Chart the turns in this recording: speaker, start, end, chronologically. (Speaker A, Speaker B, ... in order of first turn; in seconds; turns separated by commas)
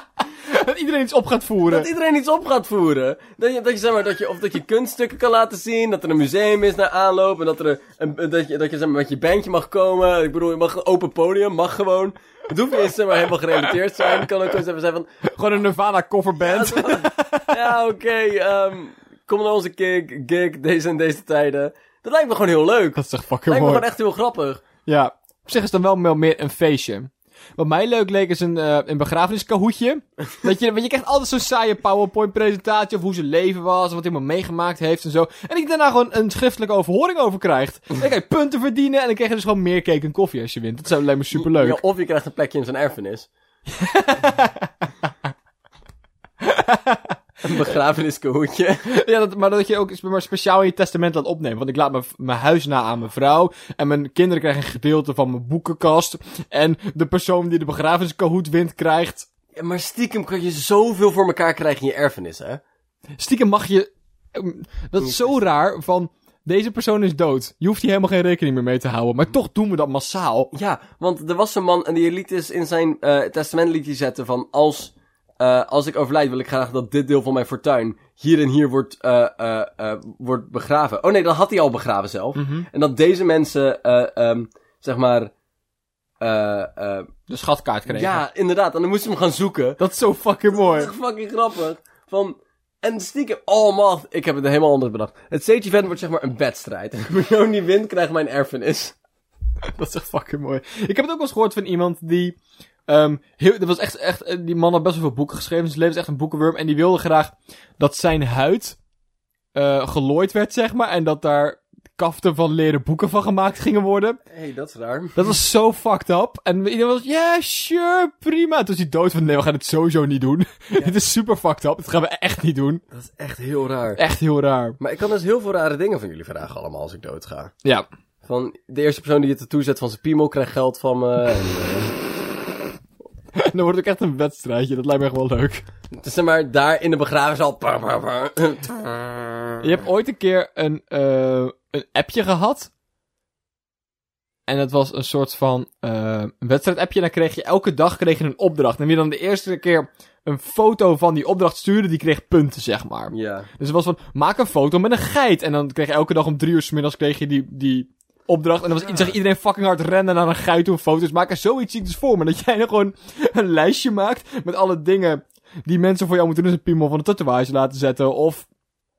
Speaker A: 0.5-1.9, Speaker B: 1.7-15.1, Speaker A: 15.2-17.6, Speaker B: 16.4-24.6, Speaker A: 22.9-23.9, Speaker A: 24.9-41.8, Speaker B: 41.3-43.3, Speaker A: 43.7-44.7, Speaker A: 46.4-47.1, Speaker B: 47.4-48.9, Speaker A: 48.9-59.3, Speaker B: 59.5-62.6, Speaker A: 63.2-70.5, Speaker B: 65.0-65.4, Speaker B: 70.5-85.3, Speaker A: 82.4-82.7, Speaker B: 86.2-87.1, Speaker A: 87.3-88.2, Speaker B: 87.9-89.8, Speaker A: 89.8-90.9, Speaker B: 90.5-98.9, Speaker A: 99.8-102.4, Speaker A: 102.9-108.8, Speaker A: 109.5-114.2, Speaker B: 114.3-115.2, Speaker A: 115.1-122.8, Speaker B: 122.9-124.0, Speaker A: 124.0-124.8, Speaker B: 124.8-127.5, Speaker B: 128.2-131.9, Speaker A: 133.4-135.6, Speaker B: 135.9-139.6, Speaker A: 139.6-142.7, Speaker A: 144.5-168.4, Speaker B: 153.1-153.5